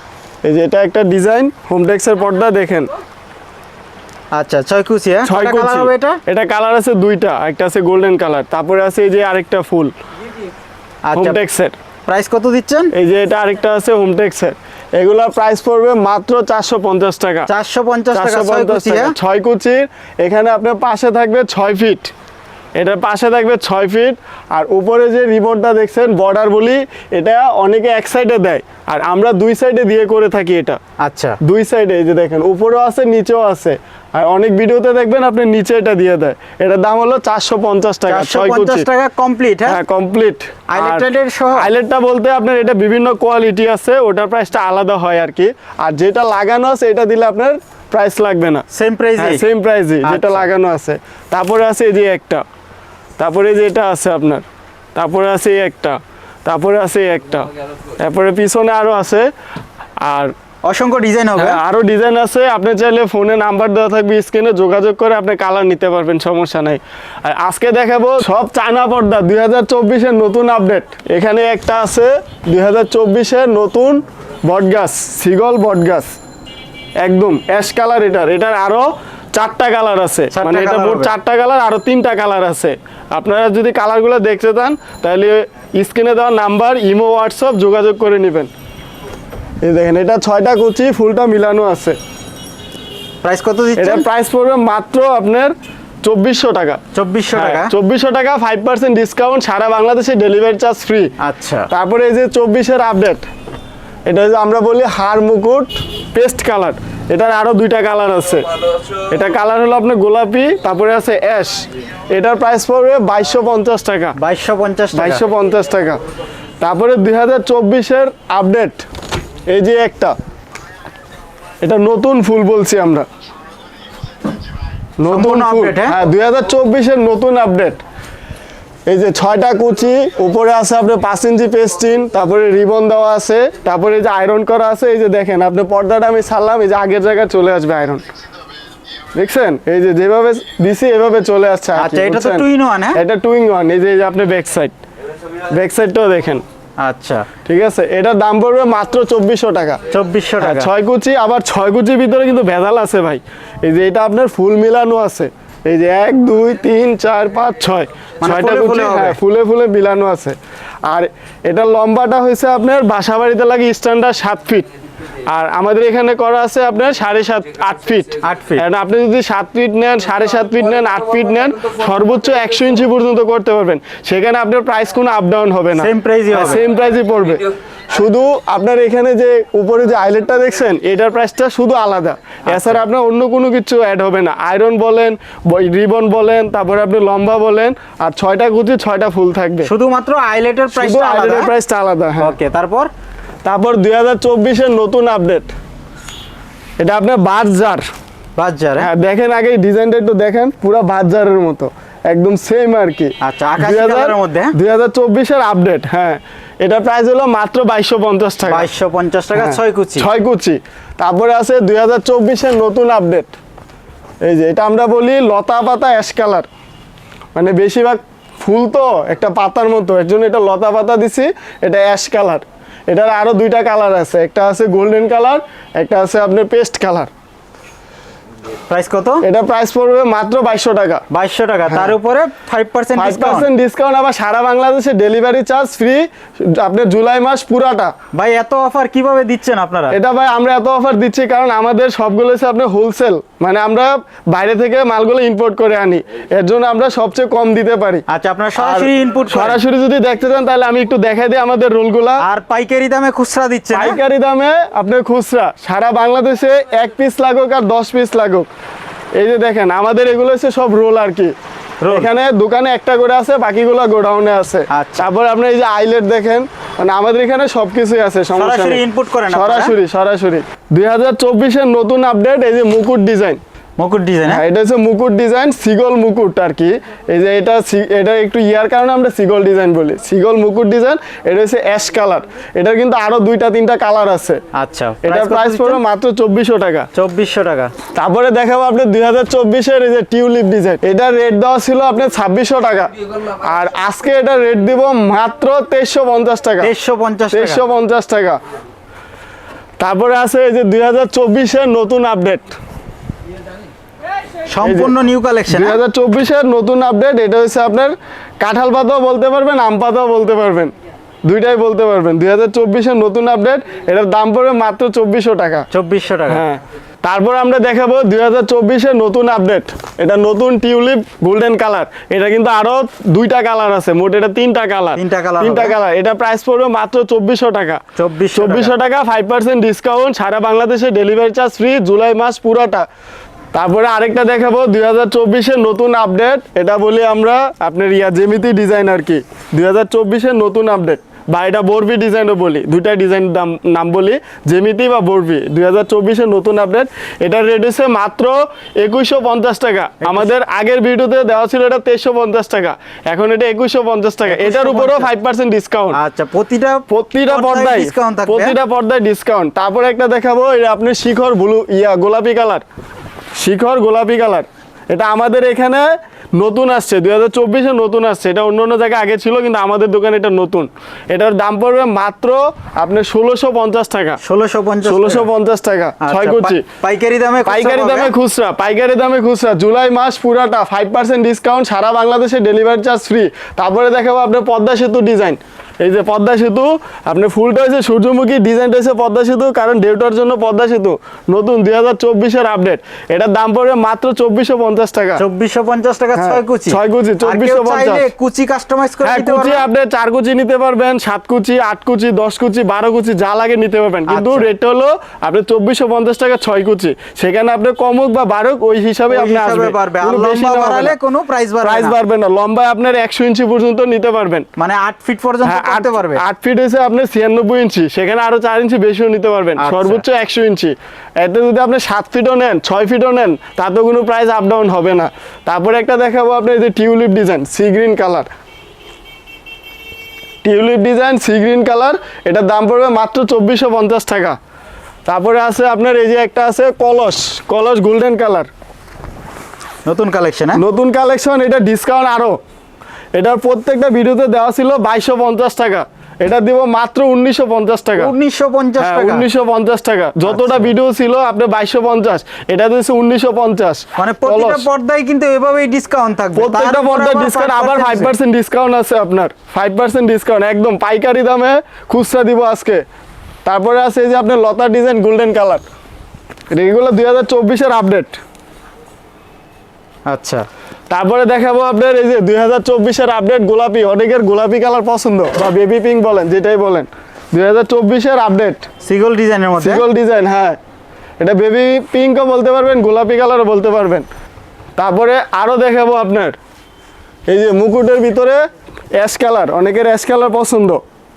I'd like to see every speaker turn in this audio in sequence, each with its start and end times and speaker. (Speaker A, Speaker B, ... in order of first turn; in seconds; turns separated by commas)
Speaker A: 0.4-2.9, Speaker B: 4.3-6.2, Speaker A: 5.2-9.9, Speaker B: 11.1-11.4, Speaker A: 11.2-11.8, Speaker B: 12.1-12.9, Speaker A: 12.9-17.5, Speaker B: 17.5-19.1, Speaker A: 18.1-22.1, Speaker A: 22.8-30.8, Speaker B: 31.0-31.4, Speaker A: 31.4-38.9, Speaker B: 38.1-39.8, Speaker A: 39.7-48.6, Speaker B: 40.7-41.7, Speaker B: 48.7-49.4, Speaker A: 49.2-52.4, Speaker B: 50.0-50.5, Speaker A: 53.2-54.4, Speaker A: 55.0-59.3, Speaker A: 60.0-60.3, Speaker B: 60.6-61.6, Speaker A: 61.4-76.1, Speaker A: 77.0-88.5, Speaker B: 80.3-81.1, Speaker A: 89.6-92.0, Speaker B: 93.2-94.0, Speaker A: 93.8-96.8, Speaker B: 96.9-97.7, Speaker A: 97.3-101.1, Speaker B: 101.2-101.7, Speaker A: 101.7-103.3, Speaker A: 104.1-108.4, Speaker A: 109.1-114.2, Speaker B: 114.2-115.2, Speaker A: 114.9-116.0, Speaker A: 116.6-118.9, Speaker A: 119.5-120.2, Speaker A: 121.6-123.0, Speaker A: 125.0-127.8, Speaker B: 125.1-126.0, Speaker A: 128.9-138.0, Speaker A: 139.2-144.7, Speaker B: 141.7-143.0, Speaker A: 145.5-146.4, Speaker B: 146.8-147.3, Speaker A: 147.4-149.8, Speaker B: 149.9-150.7, Speaker A: 150.4-164.7, Speaker B: 158.2-159.2, Speaker A: 165.3-189.7, Speaker B: 168.2-168.6, Speaker B: 175.8-176.6, Speaker B: 182.5-182.8, Speaker B: 189.6-191.5, Speaker A: 190.7-192.3, Speaker B: 192.2-192.9, Speaker A: 193.4-195.5, Speaker A: 196.8-197.8, Speaker B: 198.4-198.9, Speaker A: 198.8-208.7, Speaker B: 203.2-204.5, Speaker B: 208.5-210.1, Speaker A: 209.4-213.3, Speaker A: 214.2-216.5, Speaker A: 217.3-227.1, Speaker B: 228.7-229.2, Speaker A: 229.2-231.0, Speaker B: 231.1-233.5, Speaker A: 232.9-237.9, Speaker B: 238.1-240.0, Speaker A: 239.9-248.1, Speaker B: 248.1-249.6, Speaker A: 248.6-252.2, Speaker B: 252.2-254.0, Speaker A: 253.7-258.5, Speaker A: 259.2-261.3, Speaker B: 261.8-262.1, Speaker A: 261.9-273.4, Speaker B: 264.7-265.1, Speaker B: 268.3-269.7, Speaker B: 273.8-274.4, Speaker A: 274.3-284.4, Speaker B: 284.5-285.8, Speaker A: 285.1-286.9, Speaker B: 286.9-287.7, Speaker A: 287.9-296.7, Speaker B: 296.6-297.6, Speaker A: 297.3-298.4, Speaker A: 299.8-302.6, Speaker B: 304.5-305.8, Speaker A: 304.6-304.9, Speaker A: 305.5-310.7, Speaker A: 311.2-315.7, Speaker B: 315.7-316.4, Speaker A: 316.3-327.8, Speaker B: 324.9-325.8, Speaker B: 328.0-328.7, Speaker A: 328.3-332.9, Speaker A: 333.5-356.0, Speaker B: 350.0-350.3, Speaker B: 354.3-355.1, Speaker B: 355.9-358.6, Speaker A: 356.9-362.6, Speaker A: 363.4-374.2, Speaker B: 374.2-375.3, Speaker A: 374.9-376.6, Speaker B: 376.0-378.1, Speaker A: 377.5-395.2, Speaker B: 395.2-399.6, Speaker A: 396.1-398.1, Speaker A: 399.0-410.9, Speaker B: 404.1-404.5, Speaker B: 409.1-412.0, Speaker A: 411.6-414.5, Speaker B: 414.6-416.2, Speaker A: 415.4-428.3, Speaker B: 419.6-420.0, Speaker A: 430.4-434.4, Speaker A: 435.1-438.5, Speaker B: 439.9-440.6, Speaker A: 440.6-442.4, Speaker A: 443.1-448.1, Speaker B: 448.0-449.3, Speaker A: 448.8-454.6, Speaker B: 450.3-450.7, Speaker B: 454.0-458.1, Speaker A: 456.4-462.8, Speaker A: 463.4-465.6, Speaker A: 466.5-468.2, Speaker B: 470.1-470.5, Speaker A: 470.9-478.7, Speaker B: 478.8-479.8, Speaker A: 479.6-480.6, Speaker A: 481.2-484.1, Speaker A: 484.8-486.4, Speaker A: 487.3-488.4, Speaker A: 489.0-490.8